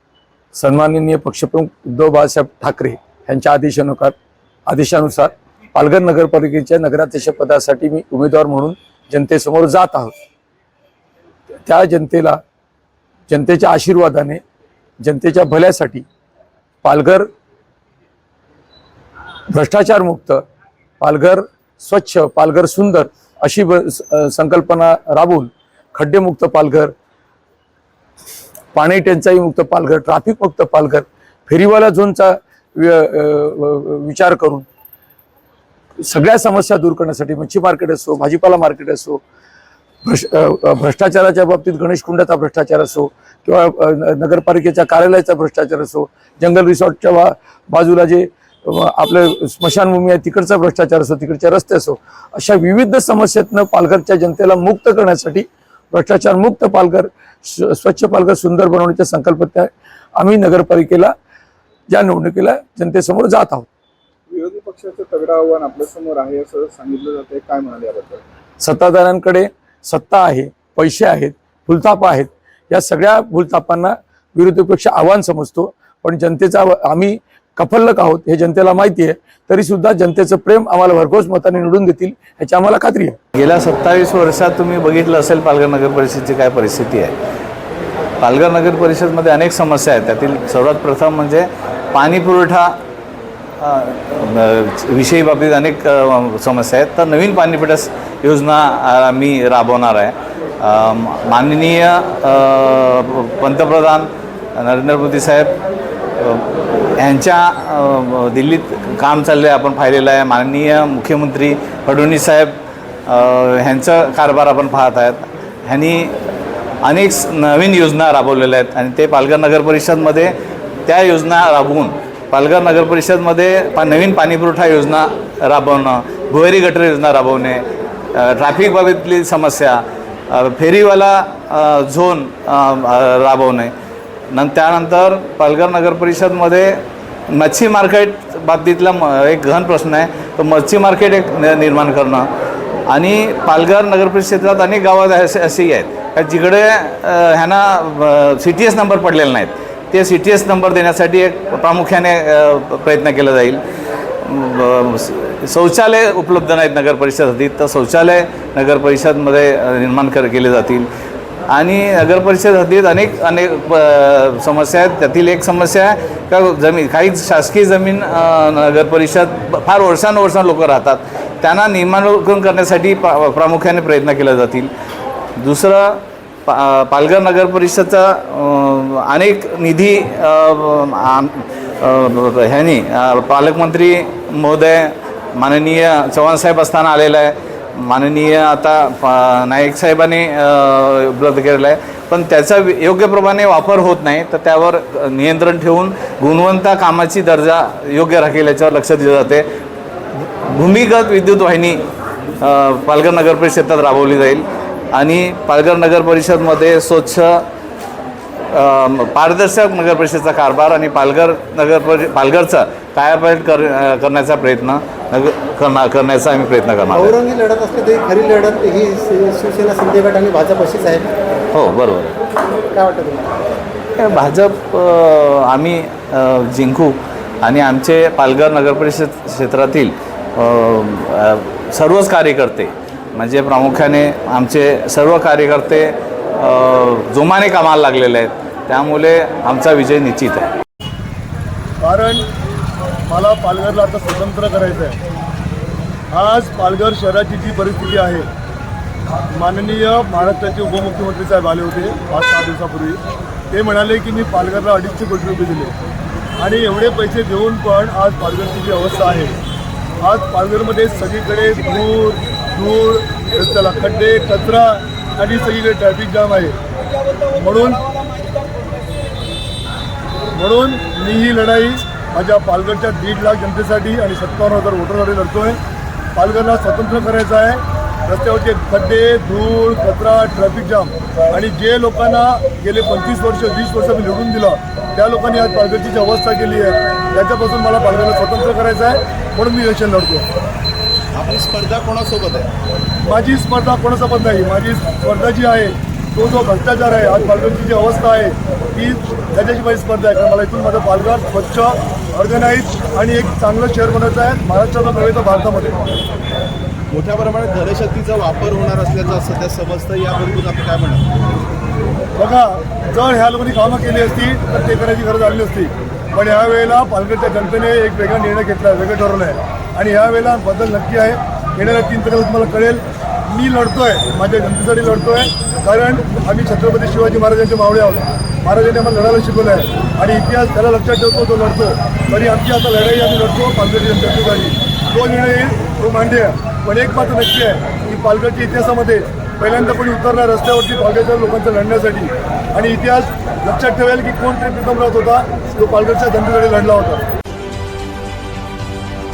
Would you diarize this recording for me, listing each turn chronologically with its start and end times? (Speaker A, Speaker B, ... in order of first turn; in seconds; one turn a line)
Speaker A: 0.5-4.2
Speaker A: 4.7-10.1
Speaker A: 11.7-12.4
Speaker A: 13.3-14.4
Speaker A: 15.0-16.1
Speaker A: 16.8-17.3
Speaker A: 19.5-20.4
Speaker A: 21.0-26.9
Speaker A: 28.7-34.7
Speaker A: 36.0-39.2
Speaker A: 40.0-61.1
Speaker A: 61.9-63.7
Speaker B: 64.3-68.2
Speaker A: 68.6-83.2
Speaker C: 83.4-87.2
Speaker C: 88.2-92.7
Speaker C: 93.6-105.5
Speaker C: 106.2-112.5
Speaker C: 113.1-116.1
Speaker C: 116.8-120.3
Speaker C: 120.9-127.6
Speaker C: 128.2-129.8
Speaker C: 130.3-133.7
Speaker C: 134.3-136.8
Speaker C: 137.3-142.3
Speaker C: 142.9-153.6
Speaker C: 154.2-160.9
Speaker C: 161.5-174.7
Speaker C: 175.4-199.5
Speaker C: 200.2-201.8
Speaker C: 202.4-207.4
Speaker C: 208.5-217.2
Speaker D: 216.9-221.1
Speaker C: 221.5-222.2
Speaker D: 222.7-223.3
Speaker C: 224.0-240.5
Speaker E: 241.8-242.3
Speaker E: 243.1-245.0
Speaker E: 246.1-248.3
Speaker E: 249.3-253.0
Speaker E: 253.5-255.7
Speaker E: 256.4-259.4
Speaker E: 260.0-266.6
Speaker E: 267.3-267.9
Speaker E: 270.4-275.6
Speaker E: 276.1-290.3
Speaker F: 291.1-292.5
Speaker E: 293.1-305.8
Speaker F: 306.9-311.1
Speaker E: 312.2-347.0